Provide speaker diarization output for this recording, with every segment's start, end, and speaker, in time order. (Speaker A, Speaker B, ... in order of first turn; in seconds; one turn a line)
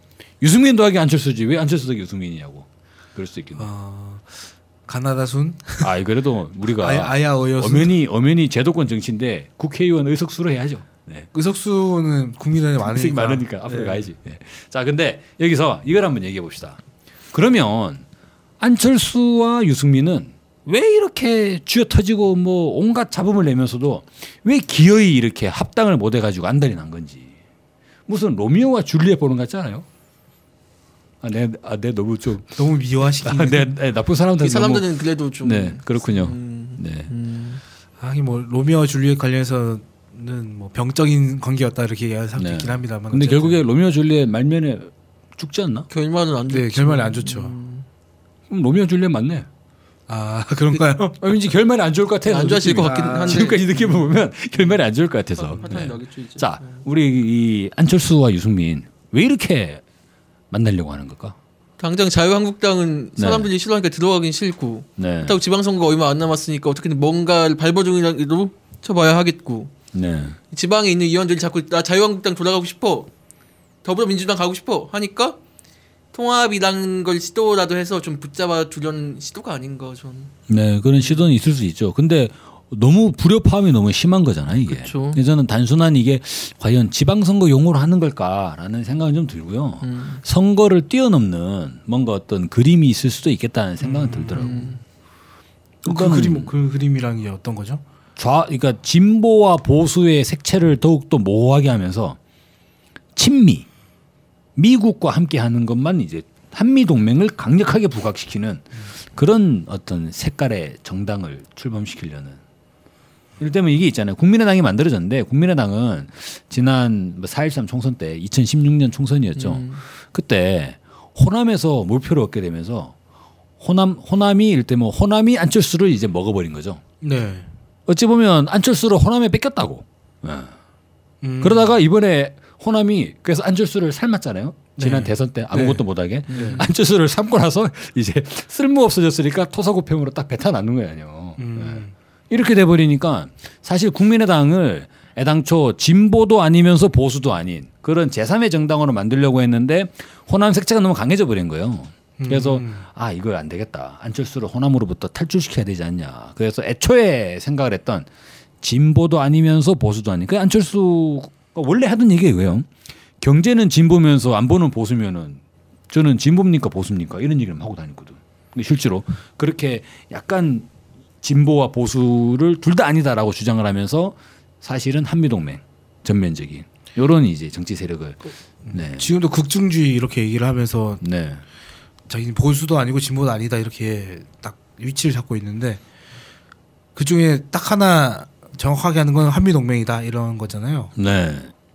Speaker A: 0.4-3.7
Speaker B: 3.5-5.9
Speaker A: 5.8-11.3
Speaker B: 6.8-8.0
Speaker B: 11.3-14.1
Speaker A: 12.8-16.8
Speaker A: 17.3-18.0
Speaker A: 18.6-27.3
Speaker A: 28.1-29.8
Speaker A: 31.2-34.9
Speaker B: 32.5-33.7
Speaker C: 34.4-37.6
Speaker A: 35.4-37.1
Speaker B: 38.0-43.6
Speaker A: 42.4-45.9
Speaker C: 45.9-47.9
Speaker B: 46.5-47.5
Speaker A: 48.5-49.5
Speaker B: 50.1-51.2
Speaker A: 51.2-59.8
Speaker C: 52.2-54.1
Speaker B: 52.8-53.4
Speaker C: 55.4-56.8
Speaker A: 60.5-61.3
Speaker C: 61.8-69.7
Speaker A: 63.2-63.5
Speaker A: 65.0-65.3
Speaker A: 69.9-70.4
Speaker C: 70.5-73.1
Speaker C: 73.8-75.4
Speaker C: 76.1-80.3
Speaker A: 80.5-94.8
Speaker C: 81.0-81.2
Speaker C: 84.7-85.2
Speaker C: 89.8-90.2
Speaker B: 93.8-94.5
Speaker C: 94.3-94.8
Speaker A: 95.8-96.5
Speaker B: 95.8-97.8
Speaker A: 98.2-102.2
Speaker A: 103.1-103.7
Speaker A: 104.5-112.4
Speaker A: 113.4-122.9
Speaker C: 119.3-119.8
Speaker A: 123.6-126.8
Speaker B: 127.0-127.5
Speaker A: 127.9-130.5
Speaker B: 131.2-131.7
Speaker A: 131.4-158.1
Speaker B: 134.8-136.6
Speaker C: 136.3-136.7
Speaker B: 141.4-141.9
Speaker B: 152.2-152.8
Speaker A: 158.6-162.7
Speaker A: 163.2-170.7
Speaker A: 171.2-179.1
Speaker B: 178.7-181.0
Speaker A: 181.0-181.4
Speaker B: 182.1-185.8
Speaker B: 186.9-190.9
Speaker A: 190.9-191.5